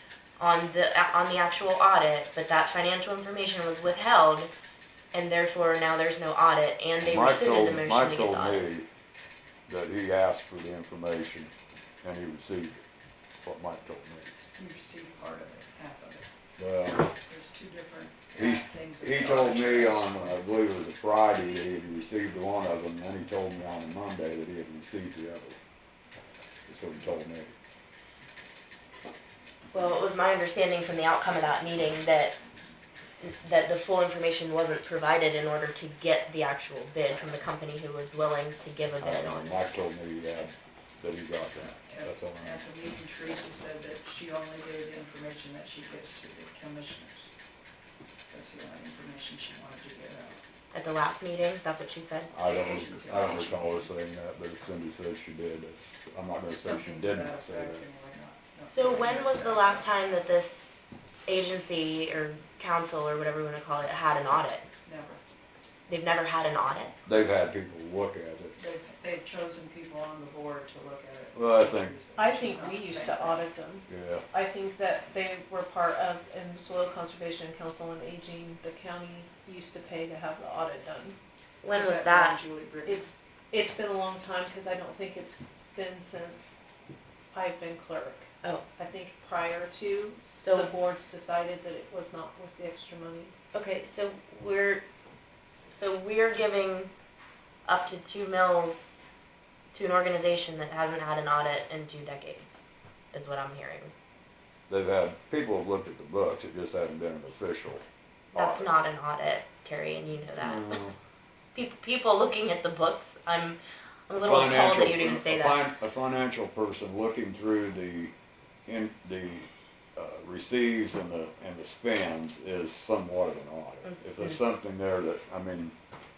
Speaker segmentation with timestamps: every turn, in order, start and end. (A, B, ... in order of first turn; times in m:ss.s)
0:00.4-0:04.5 A
0:05.1-0:08.7 A
0:07.0-0:08.9 B
0:09.7-0:11.5 B
0:12.0-0:12.8 B
0:13.4-0:14.4 B
0:14.4-0:16.3 C
0:16.6-0:17.1 B
0:17.2-0:20.4 C
0:18.4-0:25.6 B
0:26.7-0:27.5 B
0:29.7-0:32.4 A
0:33.2-0:39.7 A
0:39.0-0:42.6 B
0:41.6-0:47.3 C
0:48.3-0:50.4 C
0:50.7-0:52.3 A
0:52.3-0:57.8 B
0:52.4-0:53.9 C
0:56.5-0:59.9 C
0:58.6-1:04.6 A
1:04.8-1:05.2 C
1:05.9-1:07.0 A
1:07.0-1:08.6 B
1:08.6-1:13.4 C
1:11.3-1:11.9 B
1:12.2-1:21.2 D
1:13.9-1:14.2 B
1:21.6-1:22.4 A
1:21.7-1:23.1 C
1:22.8-1:26.6 D
1:27.3-1:33.3 D
1:30.3-1:30.7 A
1:33.5-1:34.8 A
1:35.7-1:36.9 A
1:37.7-1:39.0 A
1:39.7-1:42.6 A
1:43.1-1:43.9 A
1:44.7-1:48.7 B
1:48.3-1:50.8 A
1:50.4-1:51.0 B
1:51.5-1:55.7 A
1:54.2-1:58.1 B
1:58.7-2:05.8 B
2:03.8-2:04.4 A